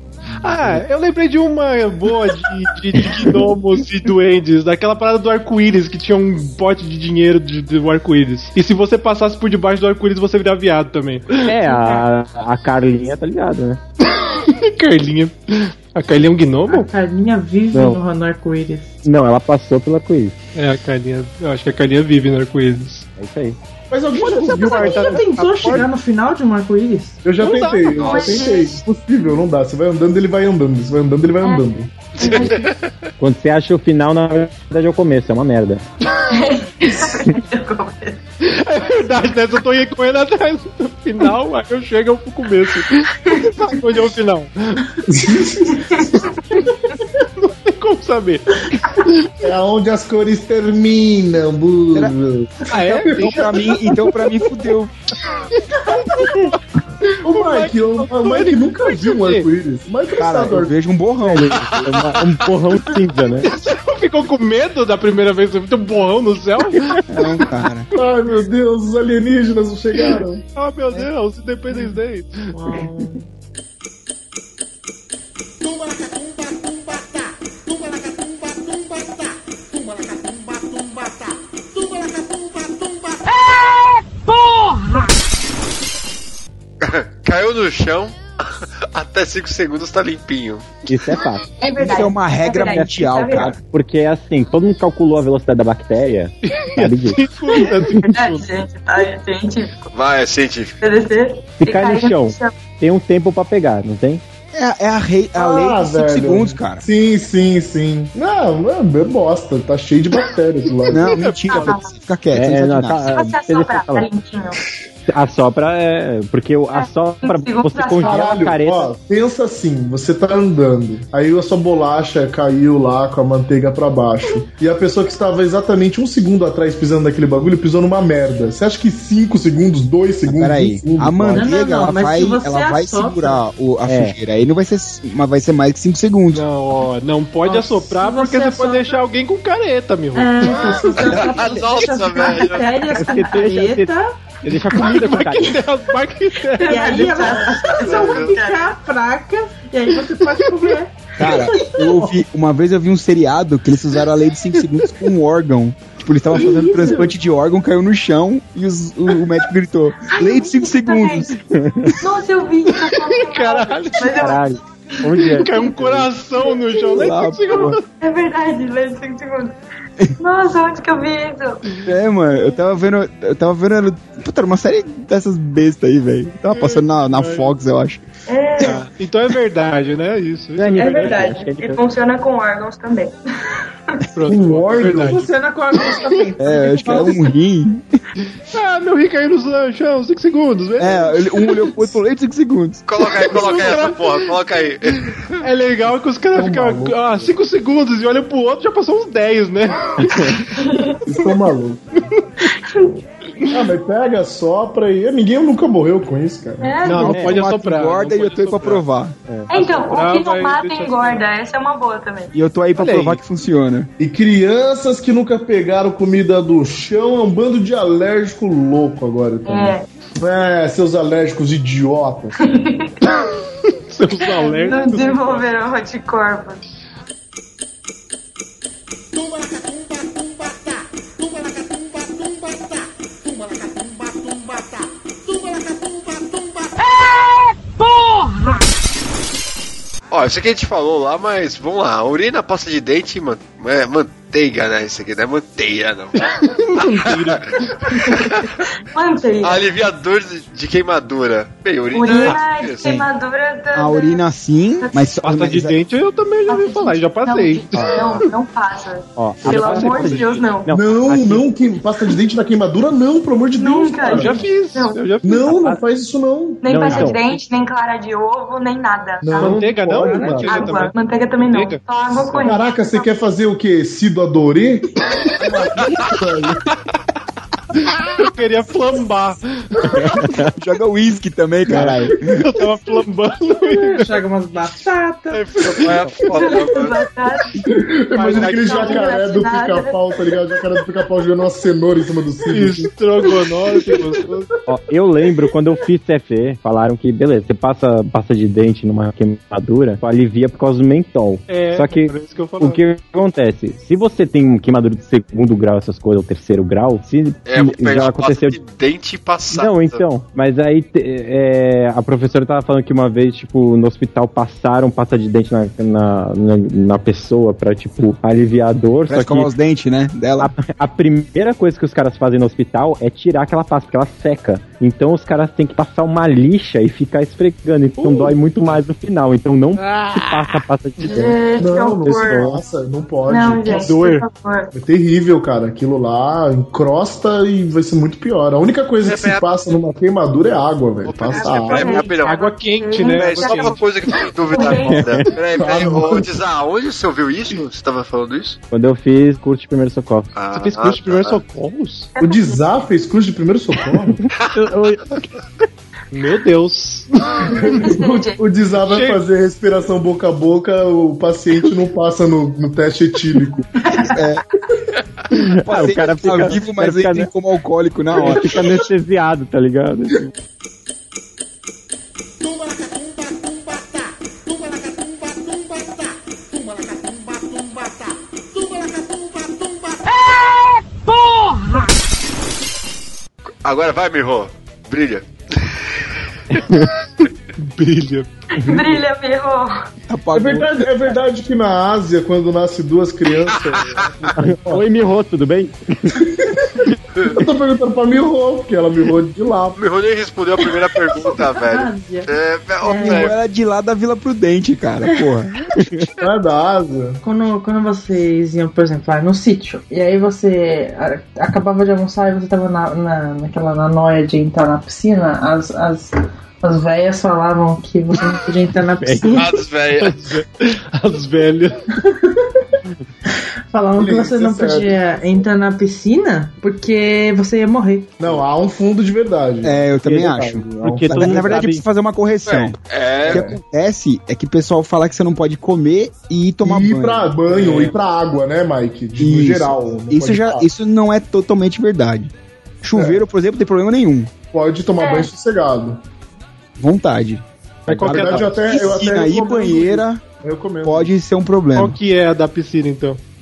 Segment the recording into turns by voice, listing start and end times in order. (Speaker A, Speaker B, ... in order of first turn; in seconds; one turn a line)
Speaker A: 0.4-11.6
Speaker B: 11.5-13.8
Speaker A: 14.2-16.9
Speaker C: 16.7-18.9
Speaker B: 19.0-20.4
Speaker A: 20.6-23.1
Speaker B: 23.2-23.6
Speaker D: 23.9-25.8
Speaker A: 24.1-25.9
Speaker C: 24.6-27.2
Speaker D: 27.2-31.9
Speaker A: 27.4-28.4
Speaker E: 27.9-28.8
Speaker E: 32.2-32.7
Speaker F: 32.2-32.5
Speaker B: 33.2-35.8
Speaker E: 36.3-38.2
Speaker A: 38.4-44.9
Speaker E: 43.2-44.0
Speaker D: 45.1-45.9
Speaker E: 45.7-46.7
Speaker A: 47.4-48.4
Speaker A: 49.0-49.3
Speaker D: 49.4-53.8
Speaker A: 52.7-53.5
Speaker G: 53.2-54.9
Speaker A: 55.5-56.5
Speaker A: 57.2-59.5
Speaker D: 57.2-60.7
Speaker G: 60.2-61.9
Speaker B: 61.2-63.5
Speaker A: 63.4-67.0
Speaker G: 67.1-67.9
Speaker D: 67.9-70.4
Speaker A: 70.5-72.5
Speaker C: 72.5-73.2
Speaker F: 86.8-90.8
Speaker B: 90.9-91.4
Speaker E: 91.6-93.5
Speaker G: 91.8-93.5
Speaker B: 92.7-98.0
Speaker A: 96.4-98.4
Speaker E: 98.1-99.9
Speaker F: 99.9-100.8
Speaker E: 100.8-102.5
Speaker B: 101.6-104.2
Speaker G: 104.5-106.8
Speaker D: 105.3-111.1
Speaker G: 110.9-113.1
Speaker A: 111.0-111.7
Speaker E: 111.5-111.9
Speaker B: 112.3-114.1
Speaker E: 113.0-114.6
Speaker B: 115.1-118.9
Speaker E: 116.7-118.3
Speaker D: 118.0-131.5
Speaker G: 130.3-136.4
Speaker C: 131.4-133.4
Speaker B: 133.8-134.2
Speaker A: 136.3-140.5
Speaker C: 137.4-139.0
Speaker C: 140.1-144.1
Speaker F: 141.0-142.6
Speaker E: 142.6-143.4
Speaker B: 142.9-143.9
Speaker B: 144.4-145.6
Speaker A: 144.7-147.7
Speaker E: 146.6-148.7
Speaker C: 146.7-150.9
Speaker F: 147.9-148.3
Speaker G: 151.2-161.3
Speaker E: 151.5-151.7
Speaker C: 156.4-157.1
Speaker E: 160.0-161.3
Speaker B: 161.6-161.9
Speaker E: 162.0-164.5
Speaker A: 162.8-164.3
Speaker B: 164.1-166.1
Speaker A: 165.3-167.8
Speaker G: 167.0-167.7
Speaker E: 168.0-169.6
Speaker E: 170.2-171.6
Speaker G: 171.9-178.0
Speaker A: 176.5-177.5
Speaker E: 178.3-178.9
Speaker A: 178.6-181.3
Speaker B: 180.6-181.8
Speaker E: 180.7-183.1
Speaker A: 184.2-185.3
Speaker D: 184.2-185.2
Speaker C: 185.1-187.3
Speaker A: 185.9-186.2
Speaker G: 186.4-188.0
Speaker A: 188.5-191.9
Speaker G: 190.8-192.8
Speaker F: 192.9-195.4
Speaker A: 193.1-194.4
Speaker A: 195.4-200.4
Speaker D: 196.3-197.3
Speaker B: 200.1-200.4
Speaker E: 200.6-201.0
Speaker D: 201.1-201.8
Speaker E: 202.7-202.9
Speaker D: 203.5-206.9
Speaker E: 206.6-207.1
Speaker A: 206.8-208.8
Speaker G: 207.0-209.2
Speaker B: 207.1-207.4
Speaker E: 209.5-212.3
Speaker A: 209.5-211.2
Speaker G: 212.3-213.9
Speaker A: 212.8-213.2
Speaker D: 214.0-222.3
Speaker E: 219.5-219.9
Speaker E: 222.4-222.9
Speaker A: 223.9-225.5
Speaker E: 224.4-226.6
Speaker F: 240.1-246.2
Speaker A: 246.2-247.4
Speaker F: 246.8-247.4
Speaker E: 247.9-248.3
Speaker E: 248.9-249.7
Speaker F: 249.4-252.9
Speaker E: 251.9-254.2
Speaker A: 252.1-252.4
Speaker G: 253.7-255.7
Speaker E: 254.8-255.2
Speaker A: 255.2-258.3
Speaker E: 256.5-260.7
Speaker B: 259.2-261.4
Speaker A: 259.8-260.1
Speaker D: 260.7-264.4
Speaker E: 263.6-265.1
Speaker A: 264.0-265.7
Speaker D: 265.2-267.1
Speaker B: 265.5-265.8
Speaker E: 266.6-269.7
Speaker B: 266.6-267.4
Speaker D: 269.2-270.7
Speaker A: 269.3-271.8
Speaker C: 270.0-270.4
Speaker E: 270.2-273.0
Speaker D: 272.4-274.9
Speaker D: 275.4-276.6
Speaker A: 278.2-279.9
Speaker B: 280.0-280.5
Speaker G: 280.6-282.3
Speaker A: 281.7-284.1
Speaker C: 283.7-285.5
Speaker F: 285.3-286.9
Speaker E: 286.3-287.5
Speaker D: 287.6-292.9
Speaker A: 288.1-289.3
Speaker E: 288.3-290.0
Speaker A: 292.4-294.5
Speaker E: 293.9-294.2
Speaker B: 294.7-308.6
Speaker A: 301.5-302.8
Speaker F: 307.4-310.0
Speaker B: 309.5-319.5
Speaker G: 319.1-320.5
Speaker B: 320.4-331.4
Speaker A: 328.0-328.3
Speaker A: 329.8-330.6
Speaker E: 331.0-332.6
Speaker D: 331.6-333.9
Speaker B: 332.0-332.6
Speaker E: 333.3-334.7
Speaker A: 333.7-334.2
Speaker D: 334.7-341.9
Speaker F: 339.0-339.5
Speaker F: 341.0-342.5
Speaker E: 341.3-343.8
Speaker A: 341.8-343.8
Speaker F: 343.0-348.6
Speaker E: 344.5-345.2
Speaker B: 344.9-345.2
Speaker D: 345.5-346.3
Speaker B: 348.7-350.3
Speaker F: 350.3-351.4
Speaker A: 350.5-352.1
Speaker E: 352.2-352.6
Speaker D: 352.2-354.2
Speaker B: 354.6-355.2
Speaker A: 356.1-357.5
Speaker D: 357.6-363.6
Speaker E: 357.8-358.4
Speaker A: 358.8-359.2
Speaker E: 363.8-364.1
Speaker G: 364.1-364.4
Speaker B: 365.3-367.3
Speaker G: 365.6-368.6
Speaker B: 368.1-370.3
Speaker F: 383.6-385.8
Speaker A: 387.6-388.3
Speaker E: 388.6-389.8
Speaker G: 390.1-390.7
Speaker D: 390.3-394.9
Speaker F: 393.5-394.1
Speaker B: 394.4-396.1
Speaker D: 397.3-399.8
Speaker F: 399.8-403.3
Speaker C: 401.6-403.3
Speaker G: 403.1-405.6
Speaker D: 406.2-407.2
Speaker C: 407.2-419.5
Speaker B: 419.0-419.4
Speaker F: 419.3-420.1
Speaker A: 420.0-421.8
Speaker C: 423.7-428.1
Speaker D: 423.9-425.4
Speaker D: 428.2-431.7
Speaker G: 429.6-432.8
Speaker B: 430.8-431.8
Speaker F: 432.4-433.4
Speaker D: 433.2-433.6
Speaker G: 433.3-437.3
Speaker D: 436.6-440.7
Speaker A: 437.5-437.9
Speaker G: 439.2-442.3
Speaker G: 442.8-444.3
Speaker D: 442.9-443.2
Speaker D: 444.5-446.0
Speaker E: 445.0-445.3
Speaker G: 446.8-450.3
Speaker D: 447.9-451.1
Speaker B: 447.9-448.4
Speaker A: 448.0-448.7
Speaker G: 450.8-451.9
Speaker A: 451.7-453.2